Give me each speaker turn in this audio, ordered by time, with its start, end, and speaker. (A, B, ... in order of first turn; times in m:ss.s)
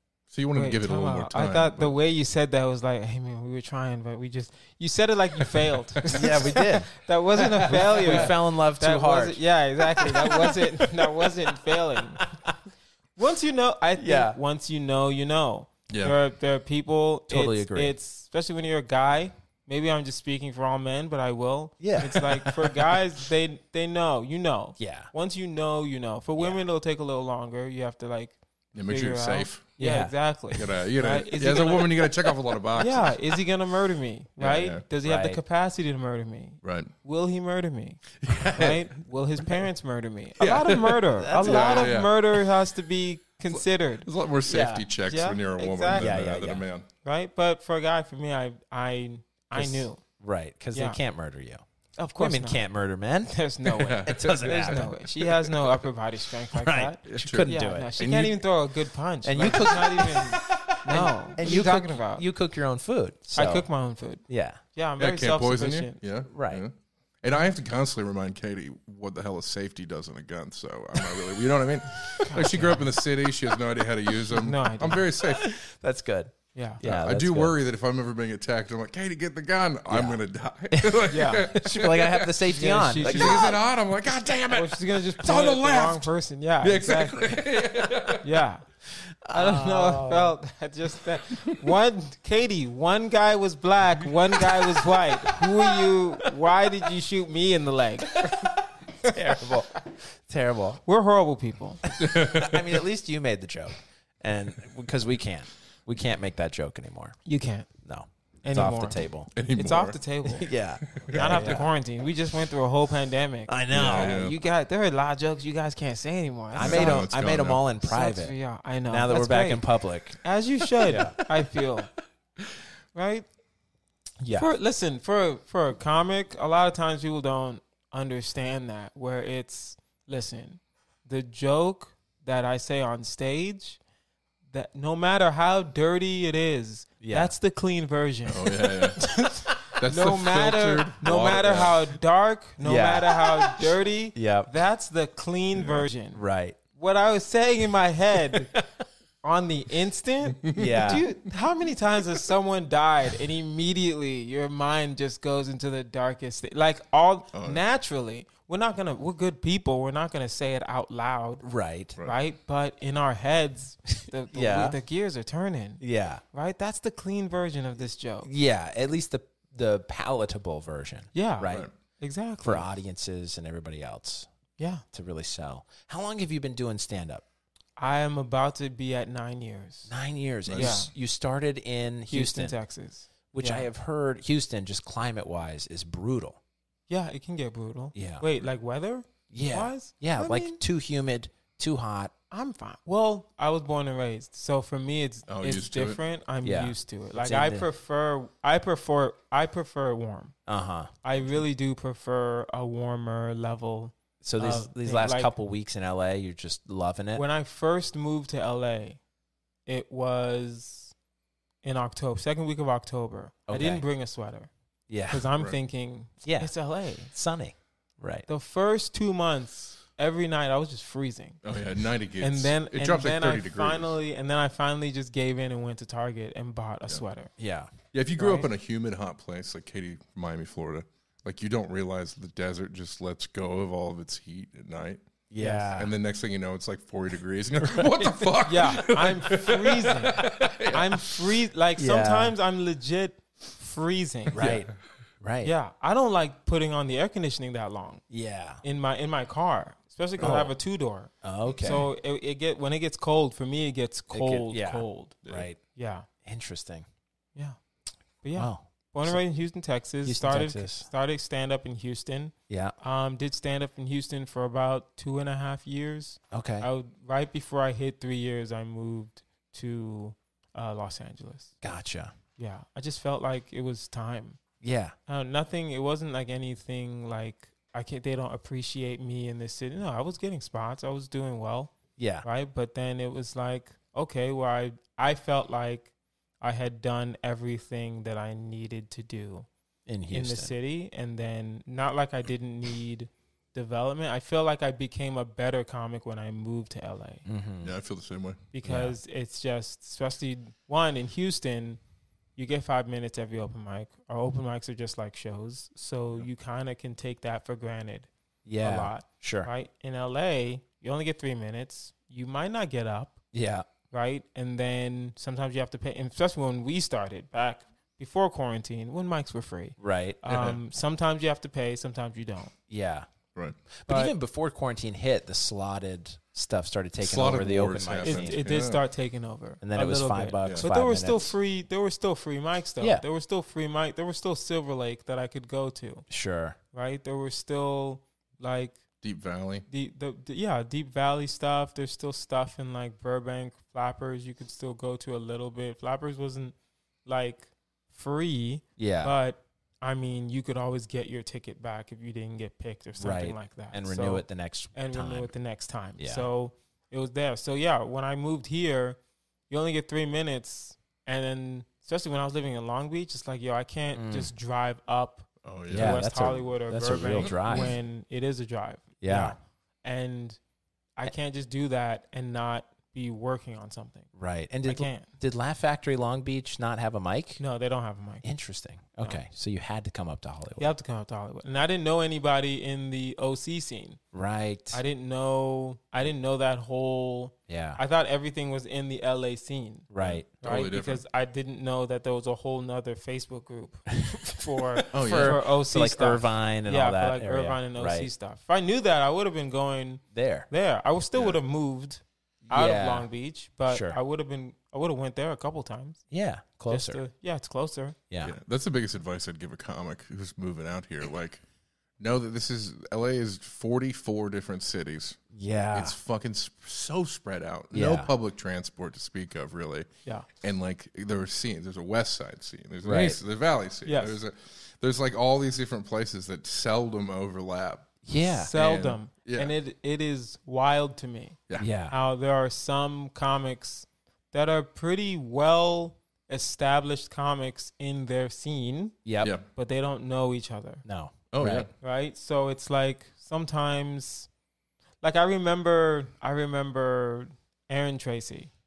0:00.3-0:02.0 A
0:00.5-0:12.3 B
0:06.1-0:06.9 C
0:07.4-0:09.4 C
0:08.0-0:08.3 A
0:10.0-0:11.3 C
0:13.2-0:32.1 B
0:14.0-0:14.4 C
0:15.9-0:16.2 A
0:17.3-0:18.0 C
0:21.8-0:22.8 C
0:24.8-0:25.1 C
0:28.8-0:29.7 A
0:29.8-0:30.2 C
0:30.5-0:33.2 A
0:32.7-0:44.1 B
0:34.4-0:34.8 A
0:35.0-0:35.4 C
0:36.6-0:36.9 A
0:38.2-0:38.9 A
0:40.4-0:42.5 A
0:41.2-0:42.0 C
0:43.5-0:46.9 A
0:44.5-0:44.9 C
0:45.0-0:46.1 B
0:45.9-0:46.6 C
0:47.0-0:50.0 B
0:49.5-0:51.6 C
0:50.7-0:51.0 B
0:52.0-0:52.6 B
0:52.2-0:54.9 C
0:53.3-1:02.3 B
0:53.8-0:55.8 A
0:56.5-0:57.9 C
0:57.1-0:58.4 A
0:59.2-1:03.7 C
1:03.3-1:04.2 B
1:04.3-1:04.6 C
1:04.7-1:06.0 B
1:05.0-1:15.6 A
1:06.3-1:06.6 C
1:12.3-1:12.9 B
1:14.3-1:15.1 B
1:15.2-1:17.5 C
1:16.6-1:16.8 B
1:16.8-1:22.5 A
1:19.9-1:23.6 C
1:22.5-1:23.5 B
1:23.0-1:26.1 A
1:24.5-1:27.5 B
1:26.6-1:28.3 A
1:28.2-1:28.6 B
1:29.0-1:30.4 C
1:29.3-1:38.4 B
1:35.3-1:36.3 C
1:38.1-1:40.8 C
1:40.9-1:41.8 B
1:41.9-1:47.2 C
1:42.0-1:42.7 A
1:47.2-1:47.7 B
1:47.8-1:49.3 C
1:48.4-1:50.5 B
1:49.3-1:50.0 A
1:50.4-1:51.7 C
1:50.8-1:51.6 A
1:51.1-1:57.1 B
1:53.5-1:54.3 C
1:53.7-1:54.4 A
1:56.6-1:58.4 C
1:56.6-1:57.7 A
1:57.8-1:59.7 B
1:58.9-2:00.2 C
2:00.2-2:01.9 B
2:00.9-2:01.2 C
2:02.9-2:03.3 B
2:04.2-2:04.5 C
2:04.3-2:13.8 B
2:14.5-2:26.2 B
2:17.0-2:17.3 C
2:18.3-2:21.8 A
2:21.0-2:21.7 C
2:22.6-2:24.5 C
2:25.6-2:25.9 A
2:26.1-2:26.6 C
2:26.8-2:28.6 B
2:29.2-2:41.4 B
2:30.5-2:31.0 C
2:37.3-2:37.6 A
2:41.4-2:42.0 C
2:42.0-2:48.3 B
2:44.3-2:44.8 C
2:45.8-2:46.2 C
2:48.2-2:51.7 C
2:51.1-2:52.7 B
2:52.4-2:54.3 C
2:54.6-2:54.8 B
2:54.9-2:57.2 C
2:57.8-2:59.9 B
2:59.9-3:02.6 C
3:00.5-3:00.7 A
3:00.6-3:00.9 B
3:02.1-3:03.7 B
3:03.3-3:06.4 C
3:06.9-3:10.6 B
3:08.0-3:08.3 C
3:09.3-3:12.1 C
3:12.3-3:20.4 B
3:15.3-3:16.0 A
3:16.4-3:17.7 C
3:20.5-3:20.9 C
3:21.0-3:25.3 B
3:24.2-3:27.2 C
3:27.2-3:29.0 B
3:29.7-3:30.9 B
3:31.6-3:34.5 B
3:33.5-3:33.8 C
3:34.9-3:35.3 C
3:35.1-3:37.1 B
3:36.2-3:36.5 C
3:37.1-3:38.3 C
3:38.3-3:41.4 B
3:41.4-3:43.9 A
3:42.2-3:47.3 B
3:47.4-3:47.7 C
3:47.9-3:55.0 A
3:48.2-3:48.5 B
3:55.3-3:55.9 C
3:55.4-3:55.7 B
3:55.7-4:00.9 A
3:57.6-3:58.3 C
3:58.5-4:04.5 B
4:00.4-4:00.8 C
4:01.8-4:02.4 C
4:04.3-4:04.7 A
4:04.3-4:04.7 C
4:05.2-4:05.5 C
4:05.4-4:08.0 B
4:08.1-4:08.6 C
4:08.6-4:15.2 B
4:10.2-4:10.6 C
4:11.2-4:11.9 C
4:11.5-4:11.8 A
4:14.1-4:15.6 C
4:15.7-4:16.1 B
4:16.2-4:16.9 C
4:18.2-4:31.6 B
4:18.4-4:19.2 C
4:20.0-4:20.9 C
4:22.5-4:22.8 C
4:26.3-4:26.7 C
4:31.6-4:32.1 C
4:32.4-4:34.4 B
4:34.6-4:35.0 C
4:35.1-4:49.5 B
4:42.0-4:42.3 C
4:49.9-4:50.5 C
4:50.1-4:57.3 B
4:57.3-4:57.7 C
4:57.6-4:58.5 A
4:58.5-5:01.8 B
4:58.6-4:59.0 C
5:02.4-5:08.1 B
5:08.5-5:09.5 C
5:08.6-5:13.2 B
5:13.3-5:13.7 C
5:13.9-5:22.5 B
5:19.8-5:20.2 C
5:20.3-5:20.6 A
5:22.7-5:23.1 C
5:23.8-5:28.4 C
5:23.9-5:24.1 B
5:27.0-5:28.8 A
5:28.0-5:36.1 B
5:29.6-5:31.4 C
5:36.1-5:36.6 C
5:36.7-5:38.8 B
5:39.0-5:39.7 A
5:39.7-5:59.0 B
5:48.8-5:49.2 C
5:53.0-5:55.3 C
5:56.0-5:56.3 C
5:59.5-6:10.4 B
6:03.9-6:04.3 C
6:05.4-6:06.0 A
6:05.7-6:07.8 C
6:07.2-6:07.8 A
6:09.0-6:09.4 C
6:11.0-6:14.1 B
6:14.1-6:17.4 C
6:14.6-6:15.1 B
6:17.4-6:18.2 B
6:18.2-6:20.7 C
6:20.6-6:24.0 B
6:24.1-6:24.8 C
6:24.7-6:29.9 B
6:27.5-6:27.8 C
6:29.9-6:30.3 C
6:30.0-6:31.0 A
6:30.4-6:46.0 B
6:34.8-6:38.1 C
6:34.9-6:35.4 A
6:40.1-6:40.5 C
6:42.5-6:43.1 C
6:43.7-6:44.0 C
6:46.1-6:47.0 C
6:46.7-6:48.0 B
6:48.1-6:48.4 C
6:48.2-6:51.4 A
6:52.0-6:55.2 A
6:55.3-6:56.0 C
6:55.7-6:59.9 A
6:57.7-6:58.1 C
7:00.4-7:07.9 A
7:02.8-7:03.2 C
7:03.9-7:04.2 B
7:08.1-7:08.5 C
7:08.3-7:11.4 B
7:08.5-7:09.5 A
7:11.6-7:12.0 C
7:11.9-7:19.0 B
7:19.0-7:19.3 C
7:19.5-7:20.8 B
7:20.8-7:21.7 C
7:21.3-7:21.7 A
7:21.8-7:24.3 B
7:25.0-7:28.5 B